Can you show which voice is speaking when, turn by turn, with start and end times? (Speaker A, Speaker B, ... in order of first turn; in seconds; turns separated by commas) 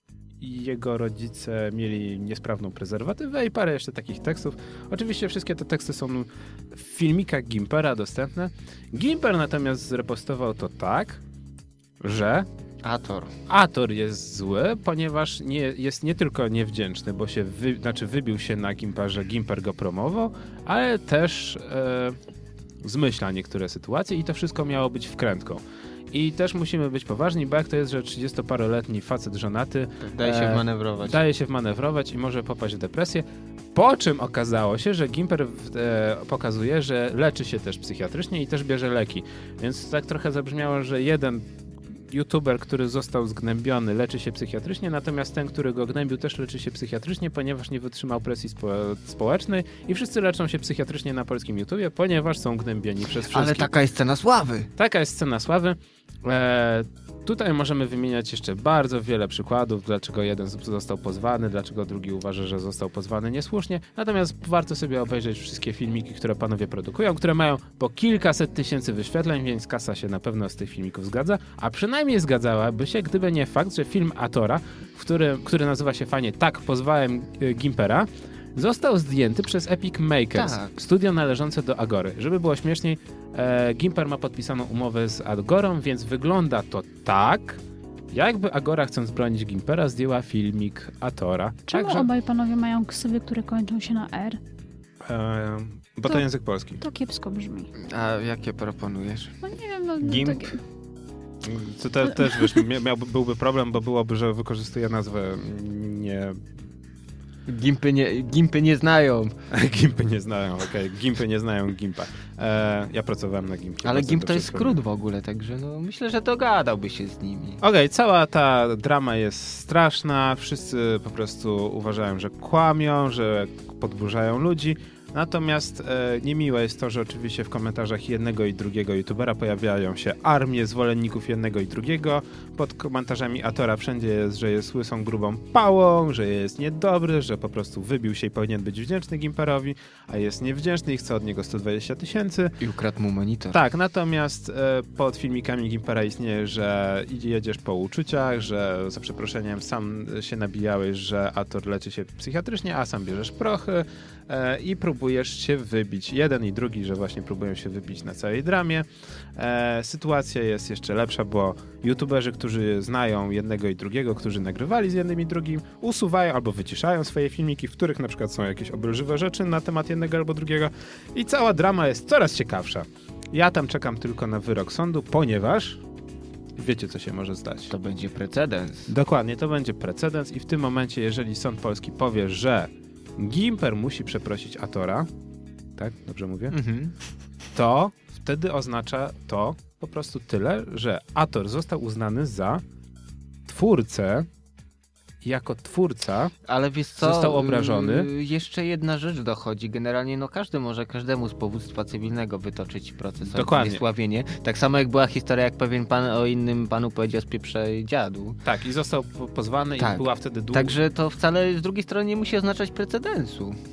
Speaker A: 0.4-11.2, Speaker A: 12.0-12.5, Speaker B: 12.8-13.3, Speaker A: 13.5-22.2, Speaker A: 22.8-25.6, Speaker A: 26.1-41.5, Speaker B: 30.0-31.2, Speaker A: 42.1-53.7, Speaker B: 53.3-54.7, Speaker A: 54.8-87.6, Speaker B: 80.3-80.7, Speaker A: 88.1-92.1, Speaker C: 91.7-94.4, Speaker A: 95.0-96.8, Speaker C: 96.8-97.7, Speaker B: 97.8-99.3, Speaker C: 99.4-100.6, Speaker B: 100.0-100.5, Speaker A: 101.4-106.4, Speaker B: 107.5-109.3, Speaker A: 109.5-114.8, Speaker B: 113.8-117.6, Speaker A: 117.6-142.6, Speaker B: 142.6-143.6, Speaker A: 143.5-175.8, Speaker A: 176.6-177.7, Speaker B: 177.7-178.9, Speaker A: 178.9-185.1, Speaker A: 185.8-186.6, Speaker B: 186.5-186.9, Speaker A: 187.5-192.6, Speaker A: 193.5-194.3, Speaker A: 195.2-196.3, Speaker B: 196.4-208.4, Speaker A: 197.0-198.1, Speaker A: 203.3-203.8, Speaker A: 208.4-210.7, Speaker B: 209.8-213.6